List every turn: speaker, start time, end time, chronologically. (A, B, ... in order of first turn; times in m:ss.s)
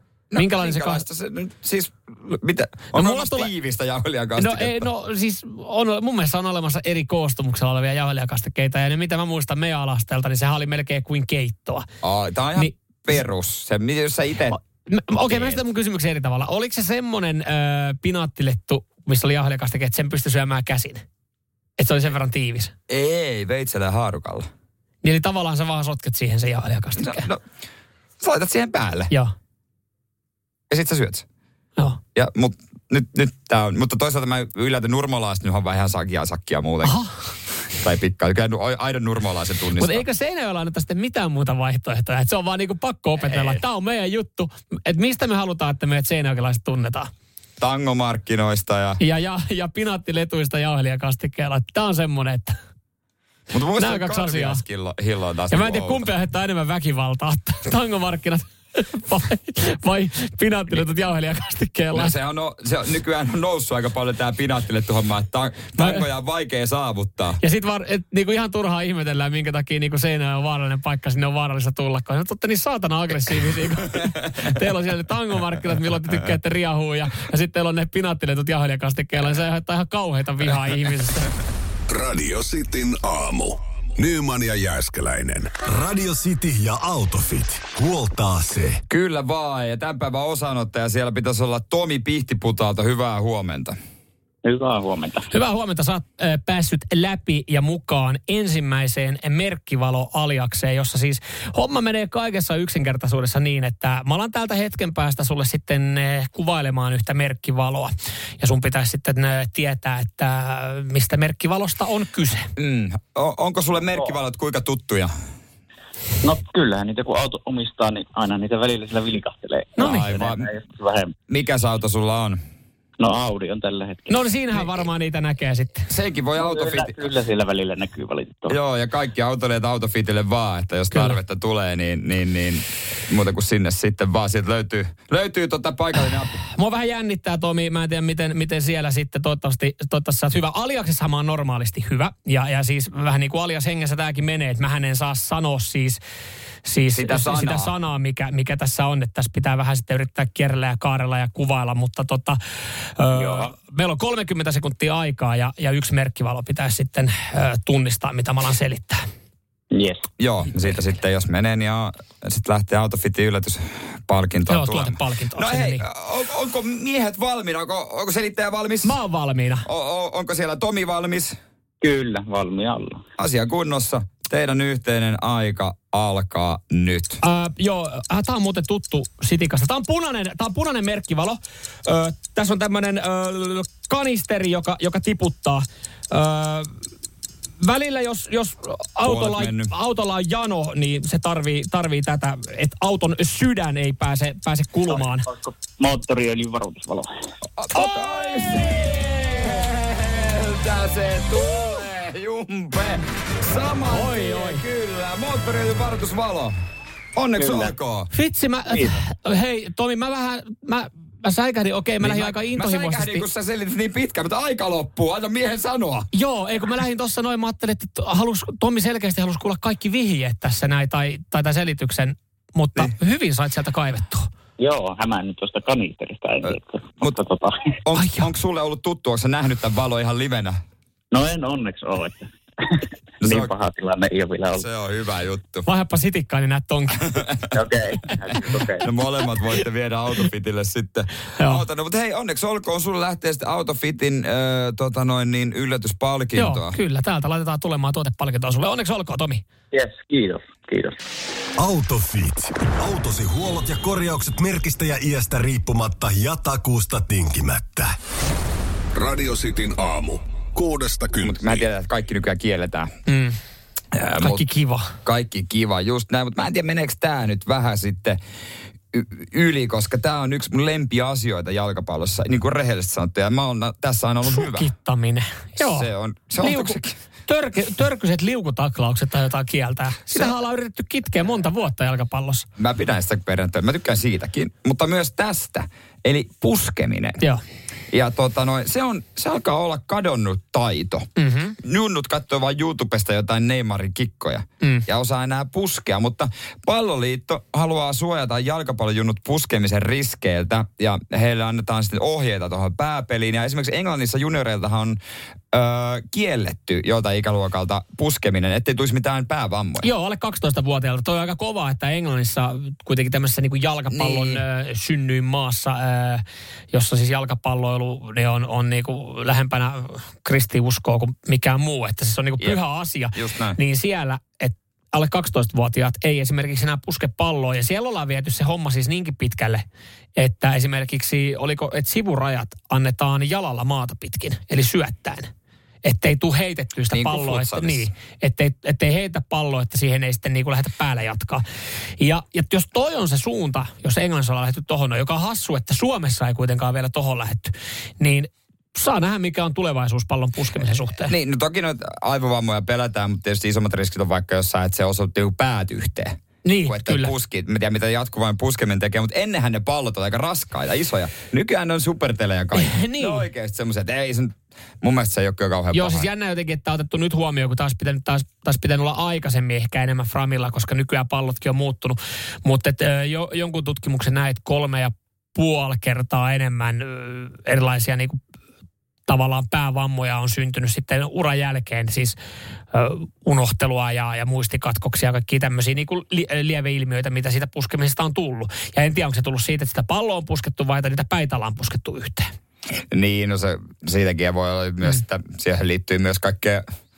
0:00.3-0:04.9 A
0:00.4-0:01.0 B
0:02.9-0:03.5 B
0:04.4-0:11.9 B
0:12.0-0:14.6 A
0:14.5-0:21.0 B
0:15.3-0:15.6 A
0:21.8-0:22.7 B
0:22.9-0:24.5 A
0:25.0-0:27.3 B
0:27.0-0:27.4 A
0:28.2-0:29.1 A
0:30.7-0:31.2 A
0:32.2-0:37.0 A
0:36.8-0:37.1 B
0:37.8-0:40.1 A
0:39.8-0:47.1 B
0:43.2-0:43.6 A
0:47.6-0:49.0 A
0:49.0-0:52.6 B
0:53.5-0:56.1 A
0:53.8-0:54.6 B
0:55.5-1:02.1 B
1:01.9-1:07.4 A
1:05.8-1:06.0 B
1:07.4-1:21.3 B
1:21.9-1:25.5 C
1:25.6-1:28.8 D
1:28.9-1:33.8 A
1:34.4-1:35.3 E
1:35.3-1:52.5 B
1:52.6-1:55.1 A
1:56.2-2:01.2 E
1:59.8-2:00.1 B
1:59.8-2:00.5 A
2:01.3-2:02.4 A
2:03.0-2:04.2 E
2:04.1-2:05.9 B
2:05.9-2:07.1 A
2:06.4-2:08.6 E
2:08.5-2:16.4 A
2:16.5-2:26.0 B
2:26.6-2:32.4 B
2:26.9-2:27.7 A
2:33.0-2:39.0 B
2:33.1-2:33.5 E
2:39.7-2:40.1 E
2:40.2-2:49.0 A
2:44.5-2:45.8 B
2:48.8-2:49.7 B
2:49.6-2:51.4 A
2:51.8-2:53.0 E
2:53.2-2:57.2 A
2:57.2-3:06.7 B
3:07.6-3:15.3 B
3:09.0-3:09.7 A
3:14.9-3:17.1 E
3:17.6-3:26.6 A
3:23.9-3:24.6 B
3:27.2-3:28.1 A
3:27.4-3:27.7 E
3:28.1-3:33.2 B
3:28.7-3:29.0 E
3:32.0-3:36.1 A
3:36.1-3:44.3 B
3:44.6-3:47.8 E
3:46.5-3:47.2 A
3:47.8-3:50.6 A
3:48.0-3:48.3 B
3:51.1-3:54.6 E
3:53.2-3:53.5 A
3:54.5-3:55.7 A
3:55.7-3:57.2 B
3:57.0-3:57.4 A
3:57.5-3:58.9 E
3:58.8-4:06.8 A
4:01.4-4:01.6 B
4:06.4-4:09.4 B
4:09.7-4:11.0 E
4:11.6-4:18.0 D
4:19.0-4:21.6 C
4:21.2-4:22.9 A
4:23.1-4:23.4 B
4:23.9-4:24.4 A
4:24.2-4:25.0 B
4:25.0-4:28.2 A
4:28.9-4:34.7 A
4:34.2-4:35.9 B
4:35.6-4:37.0 A
4:36.4-4:42.5 B
4:42.6-4:47.2 A
4:47.9-4:51.1 A
4:51.2-4:51.6 B
4:51.6-5:05.0 A
5:05.5-5:09.9 A
5:09.8-5:29.6 B
5:13.9-5:14.4 A
5:23.1-5:23.6 A
5:30.2-5:35.3 B
5:35.8-5:41.4 B
5:36.9-5:37.9 A
5:42.0-5:51.1 B
5:51.0-6:06.1 A
5:56.4-5:57.1 B
6:02.6-6:03.3 B
6:05.7-6:18.2 B
6:19.1-6:22.2 B
6:22.7-6:32.3 B
6:32.9-6:36.6 A